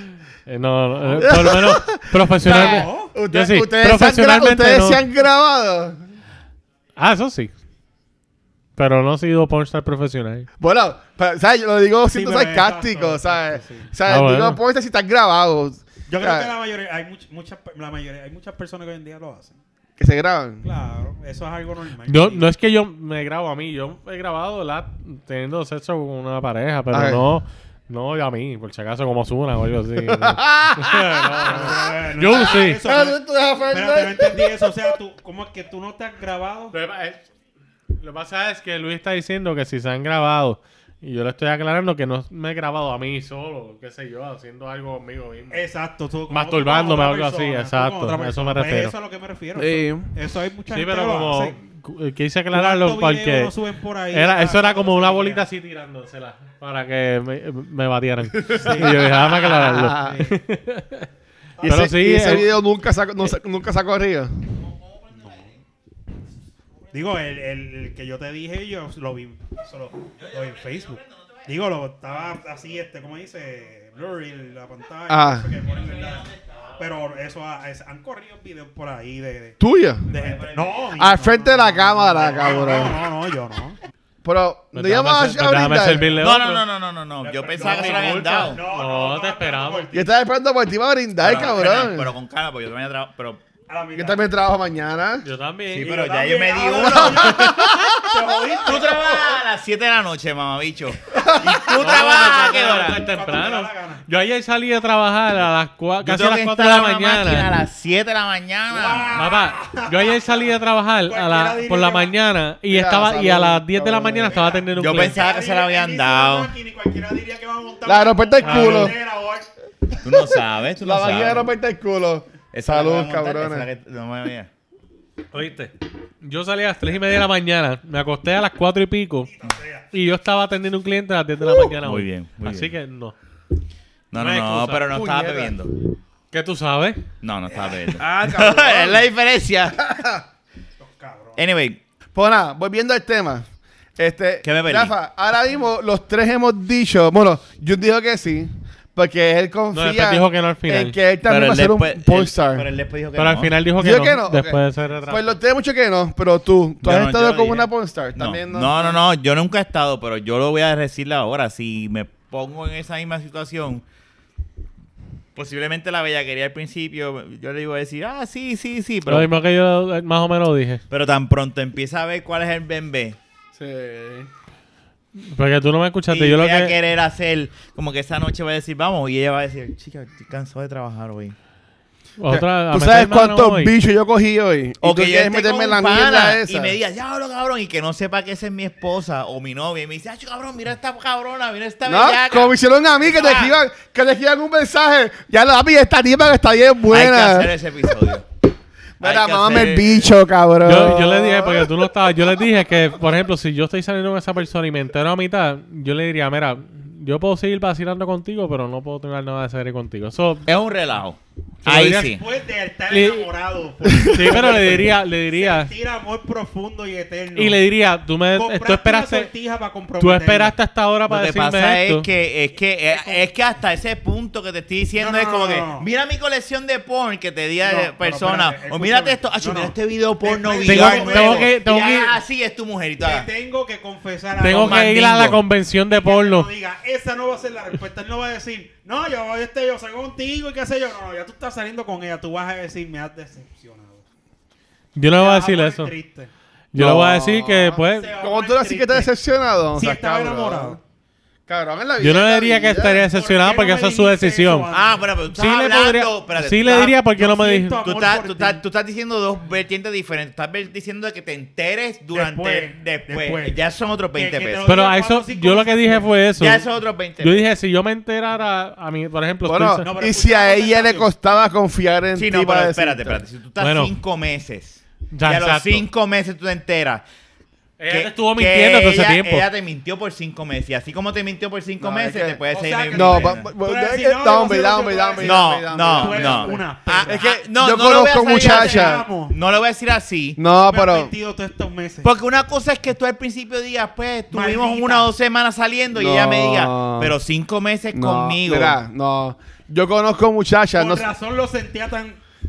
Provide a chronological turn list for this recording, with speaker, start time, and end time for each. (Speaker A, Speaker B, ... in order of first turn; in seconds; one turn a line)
Speaker A: 0.5-5.0
Speaker B: 1.1-6.0
Speaker C: 2.5-3.1
Speaker A: 7.0-7.5
Speaker A: 8.8-10.5
Speaker B: 10.6-16.5
Speaker C: 12.1-13.9
Speaker A: 14.1-14.6
Speaker C: 16.1-19.6
Speaker B: 20.0-20.6
Speaker C: 20.6-22.5
Speaker A: 22.1-32.8
Speaker B: 26.9-27.2
Speaker B: 30.0-31.8
Speaker C: 31.4-33.2
Speaker B: 32.3-34.9
Speaker C: 33.7-36.8
Speaker A: 36.7-37.2
Speaker A: 38.0-45.6
Speaker C: 45.5-51.6
Speaker A: 46.3-48.9
Speaker B: 49.6-50.1
Speaker A: 50.7-53.5
Speaker C: 52.5-55.5
Speaker A: 54.1-61.1
Speaker B: 58.3-60.2
Speaker C: 58.5-60.4
Speaker C: 61.6-61.9
Speaker B: 61.6-64.3
Speaker A: 61.6-62.5
Speaker C: 66.9-83.8
Speaker D: 70.2-71.5
Speaker B: 75.1-75.5
Speaker D: 75.7-76.7
Speaker B: 79.6-80.0
Speaker D: 80.1-80.8
Speaker B: 81.0-83.0
Speaker B: 84.2-86.1
Speaker A: 84.7-86.6
Speaker D: 86.2-88.6
Speaker C: 87.2-90.1
Speaker A: 87.6-89.9
Speaker B: 89.9-92.1
Speaker D: 91.2-93.4
Speaker C: 91.3-91.6
Speaker C: 93.7-94.2
Speaker B: 94.0-95.2
Speaker A: 95.2-95.9
Speaker D: 95.7-97.5
Speaker C: 95.8-99.3
Speaker B: 96.7-98.4
Speaker D: 98.6-103.0
Speaker B: 101.1-101.7
Speaker C: 101.6-104.0
Speaker A: 101.8-107.5
Speaker D: 106.0-109.3
Speaker C: 108.7-110.5
Speaker A: 109.2-115.2
Speaker C: 111.1-112.1
Speaker B: 112.7-114.4
Speaker C: 114.3-119.5
Speaker D: 114.8-116.5
Speaker B: 117.8-119.0
Speaker A: 118.4-118.9
Speaker D: 120.0-121.5
Speaker B: 120.8-123.7
Speaker D: 122.5-124.5
Speaker A: 125.3-129.3
Speaker C: 129.3-129.9
Speaker A: 129.9-133.2
Speaker D: 131.8-132.7
Speaker D: 134.1-135.7
Speaker A: 134.1-134.9
Speaker B: 134.9-135.6
Speaker A: 136.3-137.0
Speaker D: 137.2-139.9
Speaker B: 138.0-139.1
Speaker B: 139.8-140.2
Speaker C: 140.8-141.4
Speaker D: 141.4-141.8
Speaker B: 142.2-143.5
Speaker B: 144.0-152.7
Speaker D: 144.4-144.9
Speaker A: 149.7-151.0
Speaker D: 151.2-153.6
Speaker A: 153.2-155.3
Speaker B: 153.8-159.0
Speaker D: 156.8-163.8
Speaker D: 165.4-169.3
Speaker A: 169.1-170.8
Speaker D: 170.9-173.2
Speaker B: 173.6-174.3
Speaker A: 175.2-176.8
Speaker D: 176.1-181.3
Speaker A: 182.2-183.7
Speaker B: 182.3-186.8
Speaker D: 184.8-193.6
Speaker B: 191.9-197.5
Speaker D: 196.9-198.3
Speaker B: 199.0-201.8
Speaker D: 199.0-200.1
Speaker A: 200.7-210.5
Speaker D: 210.5-212.2
Speaker A: 211.7-212.1
Speaker C: 211.9-217.6
Speaker A: 212.9-213.3
Speaker B: 213.9-214.4
Speaker A: 214.1-215.7
Speaker A: 217.4-219.3
Speaker C: 218.3-220.6
Speaker A: 220.0-222.1
Speaker D: 221.1-233.3
Speaker C: 222.9-223.2
Speaker C: 225.0-225.9
Speaker C: 227.6-231.5
Speaker A: 230.7-232.2
Speaker C: 233.0-234.9
Speaker A: 234.4-236.5
Speaker D: 234.5-235.4
Speaker C: 235.9-244.0
Speaker A: 244.9-245.9
Speaker C: 245.2-246.3
Speaker A: 246.7-248.1
Speaker B: 246.8-250.8
Speaker C: 247.8-249.1
Speaker C: 249.7-250.8
Speaker B: 251.5-253.1
Speaker A: 252.0-254.7
Speaker C: 253.0-255.1
Speaker D: 254.7-257.0
Speaker A: 255.3-257.8
Speaker C: 257.1-258.6
Speaker D: 257.8-264.6
Speaker C: 262.1-263.6
Speaker C: 264.1-266.1
Speaker A: 264.7-266.6
Speaker D: 266.4-267.4
Speaker A: 267.2-269.9
Speaker B: 269.4-273.2
Speaker C: 269.8-271.1
Speaker D: 272.1-277.0
Speaker A: 273.6-273.9
Speaker A: 275.1-275.9
Speaker A: 277.8-279.4
Speaker D: 277.9-283.5
Speaker B: 281.8-282.4
Speaker C: 282.5-287.2
Speaker B: 282.9-289.0
Speaker D: 285.2-290.4
Speaker C: 288.2-289.4
Speaker B: 290.4-291.1
Speaker C: 290.5-292.1
Speaker D: 292.0-298.8
Speaker C: 294.3-295.1
Speaker B: 295.9-297.1
Speaker B: 297.9-301.1
Speaker C: 300.8-302.2